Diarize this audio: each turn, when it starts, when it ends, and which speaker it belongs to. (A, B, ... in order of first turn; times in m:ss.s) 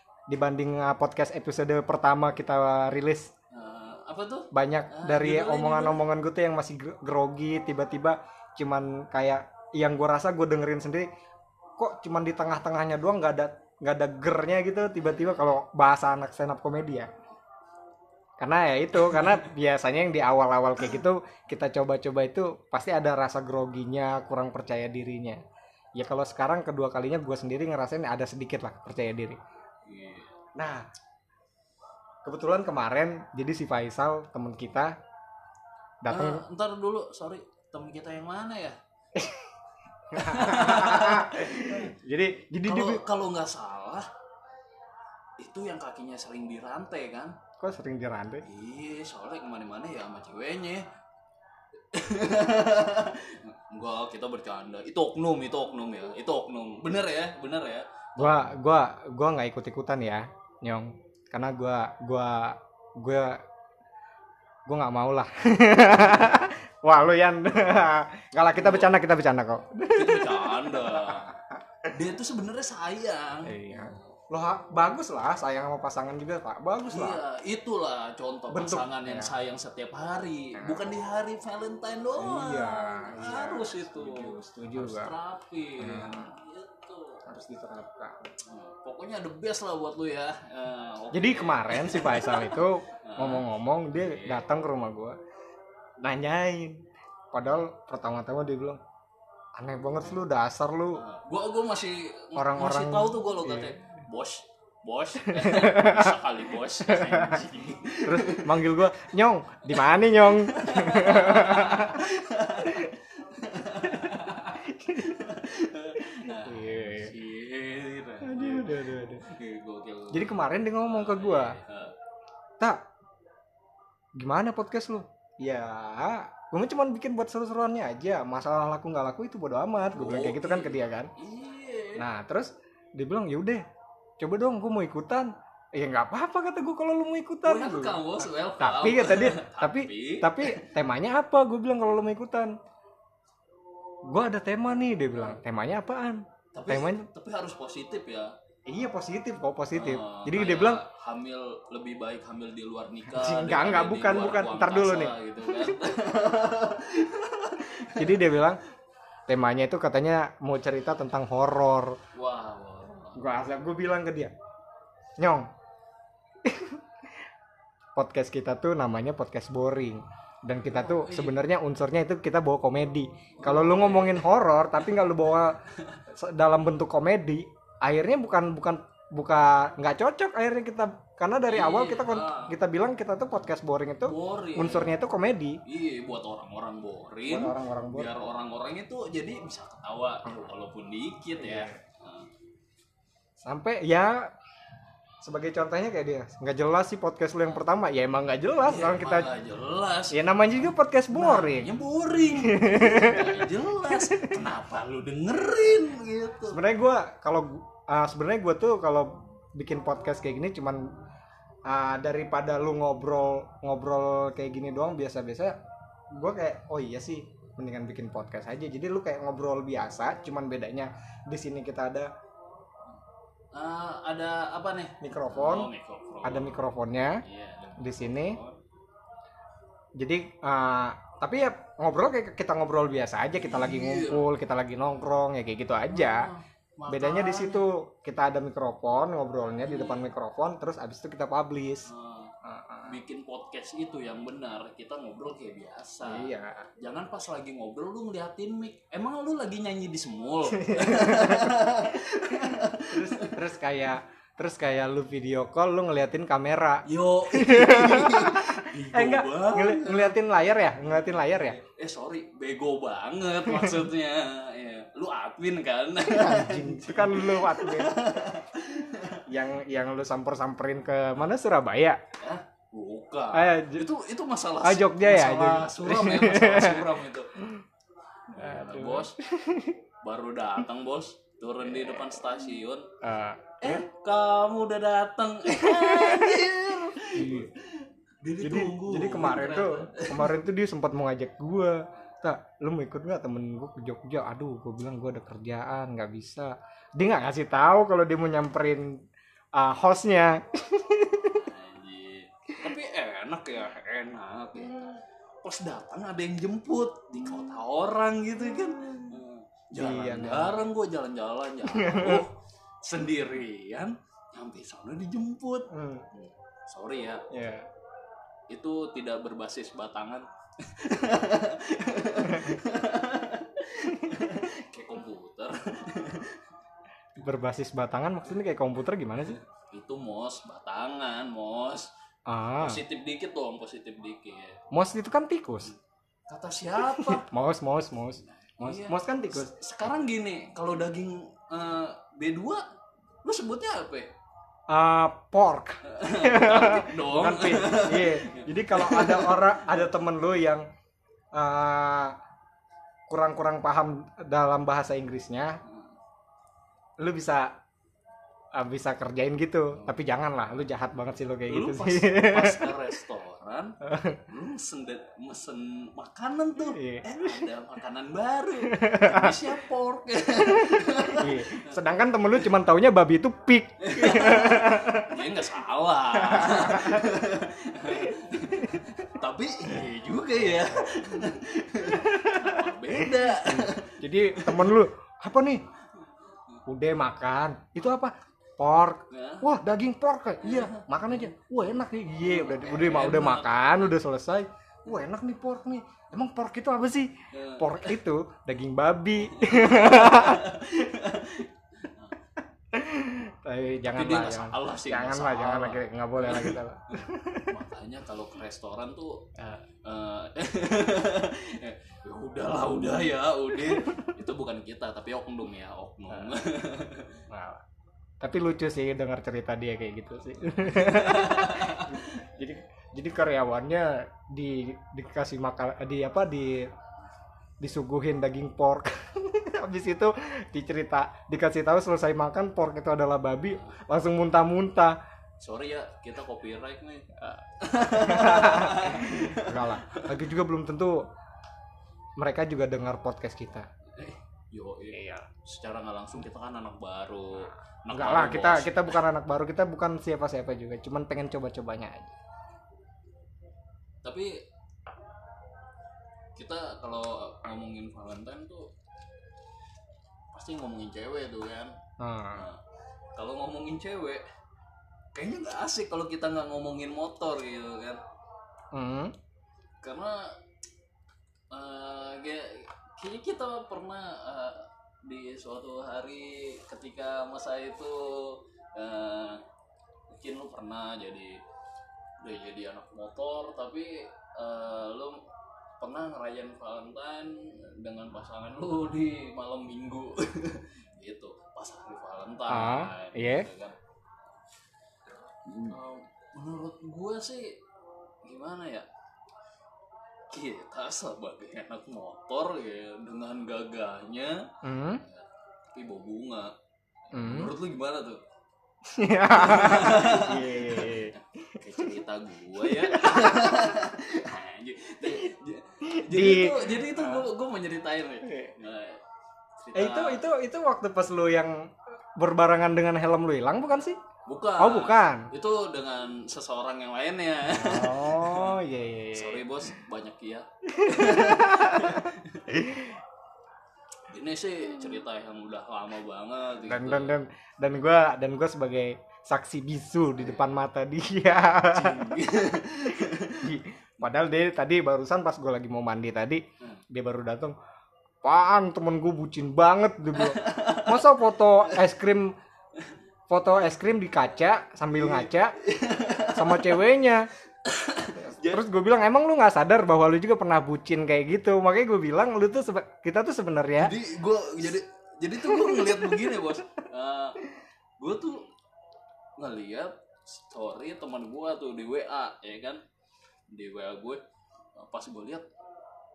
0:00.3-0:03.3 A
0:03.5-0:06.0 B
0:04.5-0:11.1 A
0:11.8-0:17.1 A
0:18.4-0:25.4 A
0:19.1-0:19.4 B
0:26.0-0:29.4 A
0:29.9-0:30.4 B
0:30.6-0:30.9 A
0:32.2-0:35.0 A
0:36.0-0:36.4 A
0:36.1-0:38.8 B
0:39.2-0:39.5 A
0:40.1-0:43.0 A
0:40.1-0:41.9 B
0:42.6-0:44.1 B
0:45.4-0:47.4 B
0:47.6-0:48.4 A
0:48.4-0:50.9 B
0:51.9-0:58.5 B
0:58.2-1:03.4 A
1:04.7-1:11.9 A
1:08.5-1:09.0 B
1:09.9-1:11.3 B
1:11.9-1:14.0 B
1:13.5-1:17.2 A
1:16.9-1:27.2 B
1:18.5-1:19.3 A
1:20.6-1:20.9 A
1:22.2-1:25.1 A
1:25.8-1:26.3 A
1:27.3-1:28.3 A
1:28.4-1:34.5 B
1:31.1-1:35.2 A
1:36.0-1:38.8 A
1:39.6-1:41.0 A
1:40.9-1:49.0 B
1:42.4-1:43.8 A
1:45.3-1:46.2 A
1:46.9-1:47.4 A
1:48.0-1:52.9 A
1:49.7-2:01.9 B
1:53.8-1:54.1 A
1:54.6-1:55.2 A
1:56.1-1:57.1 A
1:58.2-1:59.2 A
2:00.1-2:01.6 A
2:04.2-2:11.1 A
2:09.9-2:12.1 B
2:12.0-2:13.6 A
2:14.2-2:18.0 A
2:17.4-2:20.7 B
2:18.6-2:22.5 A
2:24.1-2:27.1 A
2:26.5-2:28.3 B
2:28.7-2:30.8 A
2:29.7-2:38.3 B
2:33.1-2:35.8 A
2:37.9-2:38.6 A
2:39.3-2:42.0 A
2:42.1-2:43.2 B
2:43.2-2:44.3 A
2:45.2-2:45.5 A
2:46.4-2:46.8 A
2:48.0-3:05.6 A
2:50.6-2:51.4 B
2:53.4-2:54.2 B
2:55.7-2:56.0 B
3:01.5-3:02.6 B
3:04.0-3:04.9 B
3:05.6-3:12.3 B
3:07.3-3:08.1 A
3:11.4-3:11.8 A
3:13.4-3:14.3 A
3:15.2-3:19.3 A
3:18.6-3:26.6 B
3:20.1-3:21.7 A
3:22.3-3:24.4 A
3:26.5-3:30.9 A
3:31.7-3:35.6 A
3:36.1-3:42.1 A
3:43.5-3:48.6 B
3:45.0-3:45.7 A
3:46.2-3:47.2 A
3:47.8-3:48.4 A
3:50.0-3:56.3 A
3:53.4-3:54.3 B
3:55.9-3:57.7 B
3:56.9-4:01.9 A
3:59.6-4:00.1 B
4:01.9-4:02.3 B
4:02.4-4:03.0 A
4:02.9-4:13.4 B
4:06.0-4:06.7 A
4:10.5-4:11.6 A
4:12.4-4:21.6 A
4:16.9-4:20.2 B
4:20.8-4:29.2 B
4:23.5-4:23.8 A
4:26.1-4:28.2 A
4:29.3-4:32.0 A
4:32.2-4:37.4 B
4:33.3-4:33.9 A
4:34.6-4:37.6 A
4:38.3-4:39.2 B
4:38.3-4:39.8 A
4:40.0-4:42.9 B
4:41.6-4:42.2 A
4:43.0-4:43.8 A
4:43.6-4:50.3 B
4:45.6-4:47.5 A
4:48.4-4:59.0 A
4:59.6-5:01.4 A
5:01.3-5:17.2 B
5:08.6-5:09.2 A
5:09.8-5:10.7 A
5:11.6-5:12.2 A
5:15.7-5:16.1 A
5:17.3-5:17.7 A
5:18.5-5:26.4 B
5:22.2-5:22.6 A
5:27.2-5:29.4 A
5:29.3-5:31.9 B
5:32.3-5:32.8 A
5:32.6-5:34.6 B
5:34.7-5:35.7 A
5:36.3-5:37.3 B
5:36.9-5:39.5 A
5:38.6-5:42.7 B
5:43.2-5:44.1 B
5:44.7-5:50.7 A
5:45.8-5:49.8 B
5:51.3-5:52.2 A
5:53.1-5:55.6 A
5:57.0-5:57.5 A
5:58.6-6:02.8 A
5:59.8-6:00.1 B
6:01.5-6:03.8 B
6:03.8-6:04.2 A
6:04.3-6:12.4 B
6:06.8-6:07.4 A
6:08.6-6:09.4 A
6:10.4-6:15.2 A
6:13.8-6:24.8 B
6:16.1-6:17.2 A
6:17.9-6:18.8 A
6:21.8-6:25.6 A
6:26.7-6:40.6 A
6:29.1-6:29.5 B
6:30.4-6:31.3 B
6:32.2-6:33.9 B
6:37.3-6:38.0 B
6:39.2-6:42.2 B
6:42.7-6:47.6 A
6:43.9-6:49.3 B
6:49.8-6:57.2 B
6:53.6-6:54.1 A
6:56.1-6:56.4 A
6:57.3-6:57.6 A
6:58.2-7:06.7 A
7:00.4-7:02.1 B
7:07.6-7:15.0 A
7:15.4-7:20.2 B
7:17.9-7:21.0 A
7:22.2-7:23.7 A
7:23.9-7:29.0 B
7:24.9-7:25.3 A
7:27.9-7:32.2 A
7:34.0-7:34.3 B
7:36.4-7:38.7 B
7:40.3-7:41.7 B
7:42.0-7:42.5 A
7:42.3-7:42.6 B
7:43.2-7:44.2 B
7:45.2-7:48.0 B
7:48.7-7:49.1 A
7:49.8-7:50.3 B
7:51.5-7:59.4 B
8:00.1-8:01.4 B
8:02.2-8:05.2 B
8:05.8-8:13.8 B
8:12.5-8:13.5 A
8:15.5-8:15.8 A
8:15.6-8:17.6 B
8:18.2-8:18.9 B
8:20.3-8:26.5 B
8:24.6-8:25.0 A
8:27.1-8:27.5 A
8:27.1-8:28.2 B
8:28.9-8:31.9 A
8:29.3-8:39.0 B
8:32.6-8:33.8 A
8:35.8-8:37.3 A
8:38.2-8:38.5 A
8:39.6-8:40.3 B
8:39.7-8:44.0 A
8:44.3-8:48.6 B
8:44.6-8:45.3 A
8:47.5-8:49.5 A
8:49.1-8:52.6 B
8:50.8-8:53.0 A
8:54.1-8:57.2 B
8:56.6-9:02.2 A
9:01.6-9:03.6 B
9:02.9-9:07.6 A
9:08.2-9:12.4 A
9:10.2-9:11.1 B
9:13.3-9:15.6 A
9:15.0-9:16.8 B
9:16.3-9:17.3 A
9:17.6-9:18.6 B
9:18.2-9:24.0 A
9:23.8-9:28.5 B
9:25.4-9:26.6 A
9:29.4-9:32.8 B
9:33.5-9:34.2 B
9:34.8-9:35.5 B